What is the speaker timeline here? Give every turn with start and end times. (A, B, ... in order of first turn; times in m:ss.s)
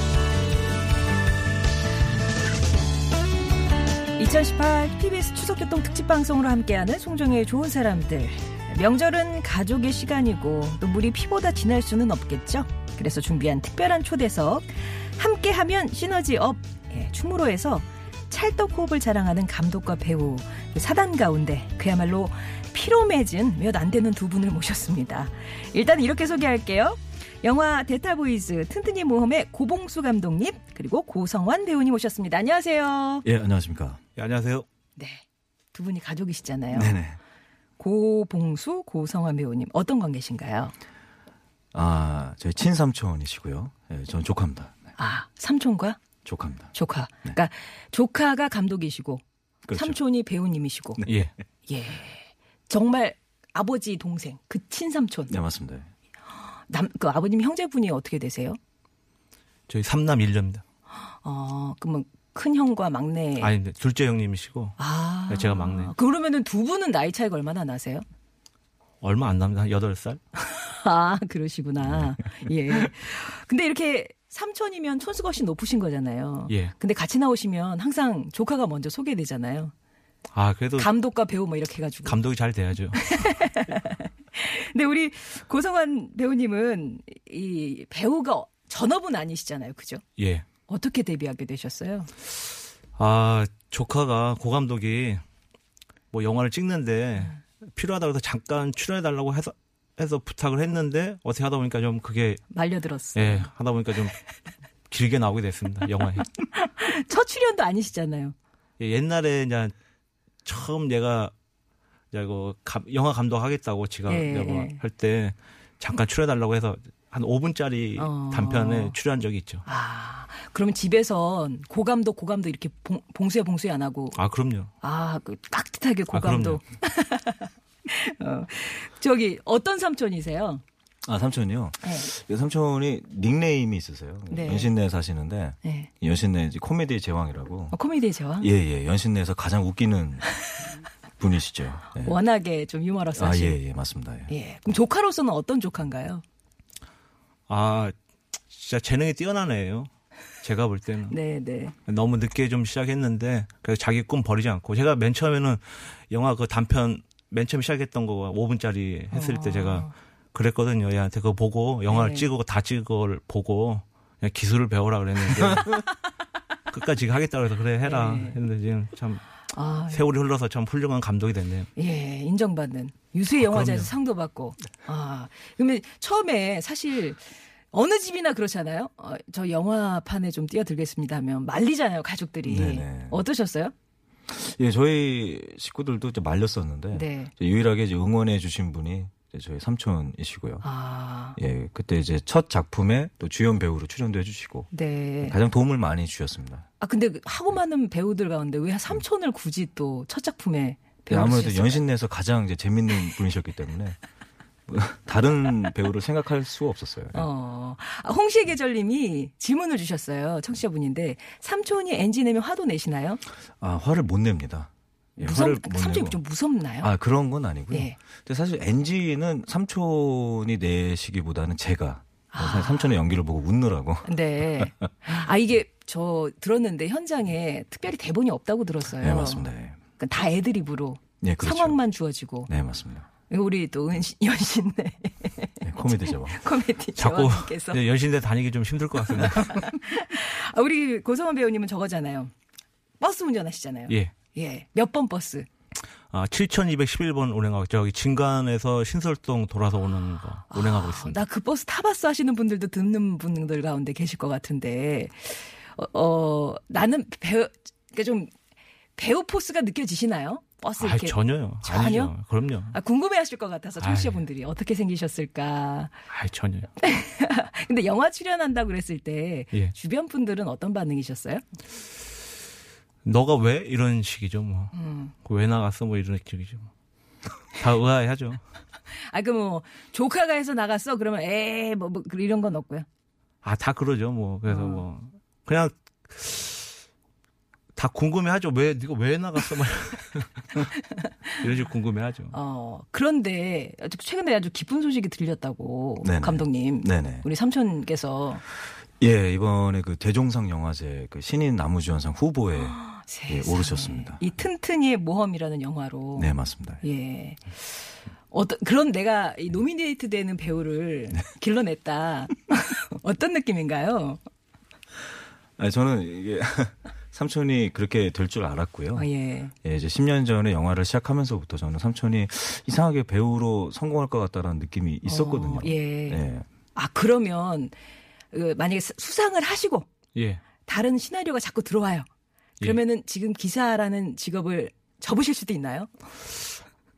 0:04.2-0:33.3 A
0:33.2-0:34.0 B
0:34.2-0:34.7 C
0:35.0-0:36.9 A
0:36.7-0:37.2 B
0:37.8-0:40.7 A
0:41.7-0:44.9 B
0:45.0-0:46.0 A
0:46.2-0:46.7 B
0:46.7-0:51.1 A
0:49.7-0:50.0 B
0:51.1-0:51.3 C
0:51.7-0:55.4 A
0:55.3-0:55.9 B
0:56.7-0:58.6 A
0:59.7-1:00.6 C
1:01.1-1:03.5 A
1:03.4-1:04.8 C
1:04.8-1:08.0 A
1:05.3-1:05.9 C
1:09.0-1:10.2 C
1:10.4-1:19.7 A
1:20.3-1:20.9 C
1:20.8-1:22.2 A
1:22.0-1:23.3 C
1:23.0-1:30.0 A
1:30.2-1:30.5 C
1:30.7-1:32.1 A
1:33.0-1:35.2 C
1:36.1-1:42.4 C
1:42.5-1:43.5 A
1:43.2-1:44.2 C
1:44.9-1:46.3 C
1:46.4-1:48.4 A
1:48.8-1:49.7 C
1:50.4-1:51.3 C
1:52.1-1:59.6 C
1:54.1-1:54.8 A
1:58.0-1:59.0 A
1:59.7-2:04.2 A
2:04.1-2:04.7 C
2:04.8-2:10.6 A
2:06.1-2:06.6 C
2:11.0-2:17.8 B
2:11.8-2:12.1 A
2:14.3-2:14.7 A
2:15.6-2:15.9 A
2:17.7-2:18.5 A
2:18.4-2:20.3 B
2:21.2-2:22.2 B
2:22.0-2:23.6 A
2:23.2-2:24.3 B
2:24.3-2:26.2 A
2:27.5-2:27.9 C
2:28.5-2:29.9 C
2:30.4-2:31.2 C
2:31.1-2:31.8 A
2:31.9-2:45.9 C
2:39.1-2:39.9 A
2:41.9-2:42.3 A
2:46.7-2:49.2 C
2:47.8-2:48.4 A
2:49.5-2:50.1 A
2:49.9-2:51.7 C
2:51.8-3:03.7 A
2:53.4-2:53.9 C
3:02.5-3:03.2 B
3:04.3-3:10.6 B
3:06.9-3:07.3 A
3:10.6-3:11.4 A
3:11.4-3:14.7 B
3:14.7-3:15.4 A
3:15.2-3:16.7 B
3:16.8-3:21.8 A
3:21.1-3:24.0 B
3:24.7-3:27.3 B
3:27.1-3:33.2 A
3:33.6-3:36.2 B
3:35.2-3:36.9 A
3:36.8-3:44.7 B
3:37.7-3:38.0 A
3:42.3-3:43.0 A
3:44.0-3:52.5 A
3:49.0-3:49.8 B
3:51.2-3:51.8 B
3:52.5-3:53.1 B
3:53.3-3:57.8 A
3:55.6-3:56.4 B
3:57.0-3:59.6 C
3:59.2-4:02.3 A
4:03.0-4:05.5 A
4:06.1-4:11.2 C
4:10.5-4:18.3 A
4:19.0-4:22.1 A
4:20.8-4:22.8 C
4:22.7-4:26.0 A
4:23.8-4:24.2 C
4:26.1-4:26.7 C
4:26.8-4:31.4 A
4:33.0-4:34.7 C
4:34.7-4:35.1 A
4:35.2-4:36.7 C
4:37.5-4:38.4 C
4:39.0-4:42.9 A
4:43.4-4:46.7 C
4:44.5-4:44.8 A
4:47.8-4:50.7 C
4:51.4-4:52.3 C
4:52.3-4:58.4 A
4:56.0-4:57.3 B
4:59.0-5:04.2 B
5:02.6-5:06.3 A
5:06.2-5:06.8 B
5:06.8-5:14.2 A
5:15.6-5:19.1 B
5:19.0-5:19.5 A
5:19.6-5:26.5 B
5:25.1-5:27.7 A
5:28.3-5:29.9 A
5:30.2-5:30.4 C
5:30.6-5:32.1 A
5:32.6-5:35.9 A